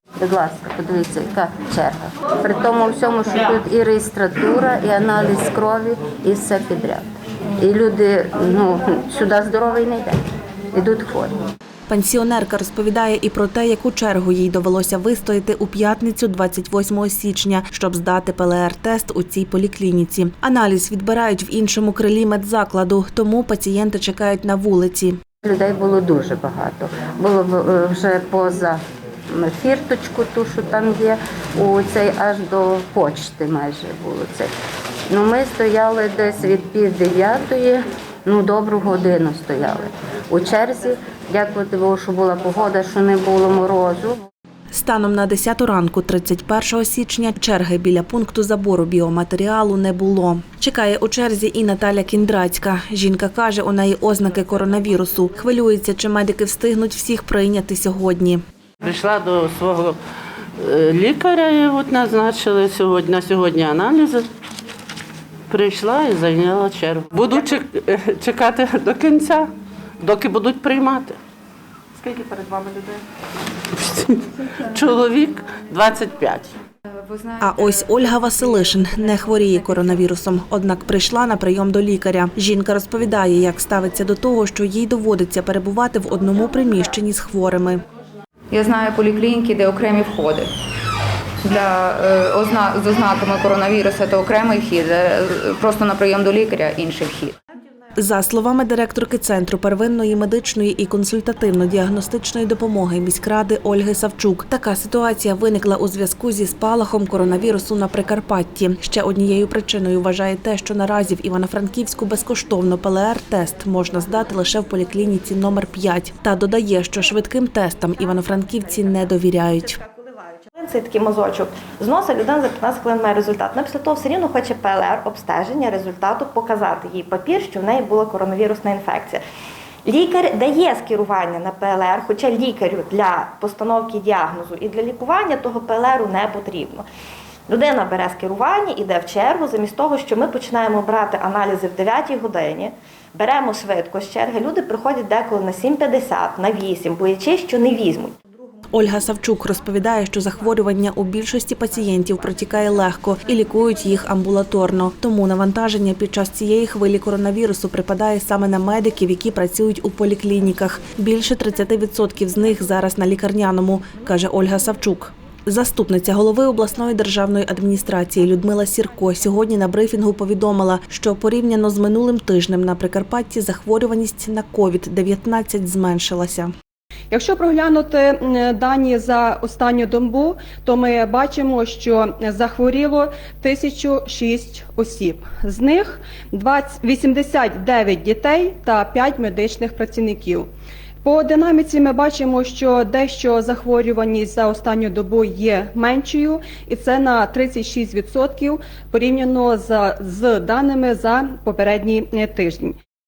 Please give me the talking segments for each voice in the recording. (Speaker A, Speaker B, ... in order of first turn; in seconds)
Speaker A: 0.2-10.2, 10.7-11.3, 25.4-34.5, 35.1-44.2
Speaker B: 11.9-25.2, 44.7-58.4, 77.4-87.8, 98.0-119.8, 148.7-176.5
Speaker C: 58.8-60.0, 60.6-64.3, 65.5-71.2, 72.0-73.0, 73.7-76.5
Speaker D: 76.9-79.9, 88.5-90.5, 91.4-97.3
Speaker E: 120.6-129.2, 129.8-136.8, 137.5-148.2
Speaker F: 177.1-190.5, 191.0-202.8